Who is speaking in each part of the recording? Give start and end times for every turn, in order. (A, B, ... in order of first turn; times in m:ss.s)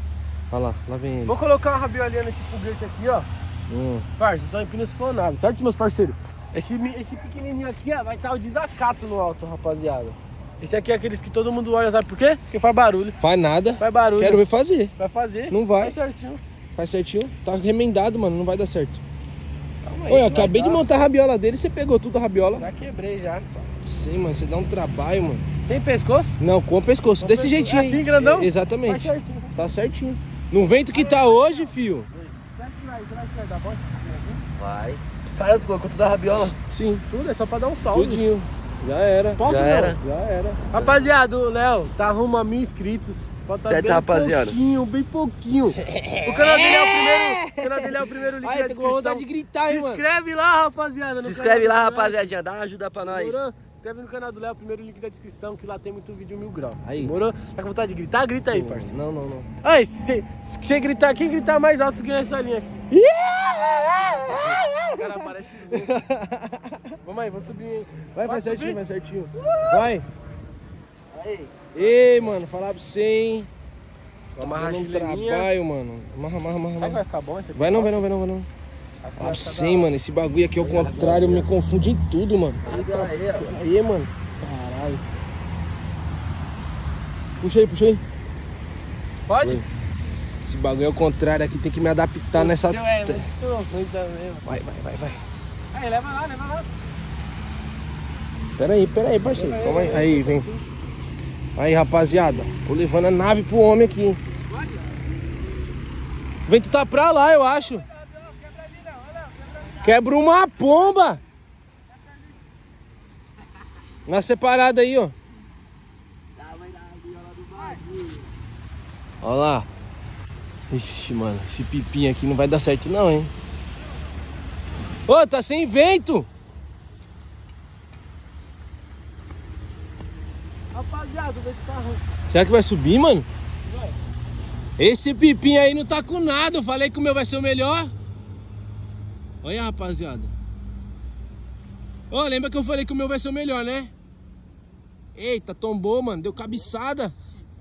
0:00.5-0:01.4 A
0:01.3-0:03.3 B
0:03.7-0:04.1 A
0:04.2-0:13.2 B
0:13.2-0:14.9 A
0:13.8-0:14.4 B
0:15.0-0:16.4 B
0:15.5-0:16.0 A
0:16.8-0:19.0 A
0:19.8-0:20.8 B
0:20.1-0:22.7 A
0:22.6-0:23.5 B
0:23.8-0:25.4 A
0:25.6-0:26.4 B
0:26.4-0:32.1 A
0:27.2-0:29.5 B
0:30.9-0:31.7 B
0:32.6-0:34.4 B
0:34.6-0:36.6 C
0:36.7-0:37.0 A
0:37.1-0:38.5 B
0:37.9-0:39.4 A
0:39.4-0:40.0 B
0:39.4-0:40.0 C
0:40.0-0:40.6 A
0:40.7-0:52.2 B
0:43.6-0:44.6 C
0:45.9-0:47.9 C
0:48.4-0:50.0 A
0:51.2-0:53.4 C
0:53.0-0:58.9 B
0:56.8-0:57.2 A
0:58.5-0:59.5 A
0:59.6-1:02.9 B
1:02.9-1:05.0 A
1:04.3-1:06.0 B
1:05.7-1:07.0 A
1:07.0-1:08.8 B
1:08.1-1:10.1 A
1:09.3-1:09.9 C
1:11.1-1:12.0 C
1:11.7-1:13.5 A
1:14.4-1:15.5 B
1:14.4-1:17.0 A
1:16.8-1:18.0 B
1:17.6-1:18.5 A
1:19.0-1:19.9 B
1:19.2-1:23.1 A
1:20.6-1:21.5 C
1:22.6-1:24.1 B
1:22.6-1:23.6 C
1:24.4-1:25.0 A
1:27.4-1:28.0 A
1:29.3-1:29.6 B
1:30.4-1:33.3 A
1:32.4-1:34.4 B
1:34.5-1:35.2 A
1:35.7-1:36.7 B
1:38.6-1:40.5 A
1:39.3-1:40.6 B
1:41.6-1:44.2 A
1:46.5-1:47.9 A
1:48.1-1:49.8 B
1:49.8-1:51.2 A
1:54.1-1:55.1 A
1:56.4-1:58.3 C
1:59.2-1:59.7 A
2:00.7-2:03.3 A
2:05.1-2:06.3 A
2:10.7-2:12.0 B
2:12.3-2:13.3 A
2:14.8-2:17.9 A
2:19.4-2:20.3 A
2:22.1-2:23.9 A
2:25.2-2:27.2 A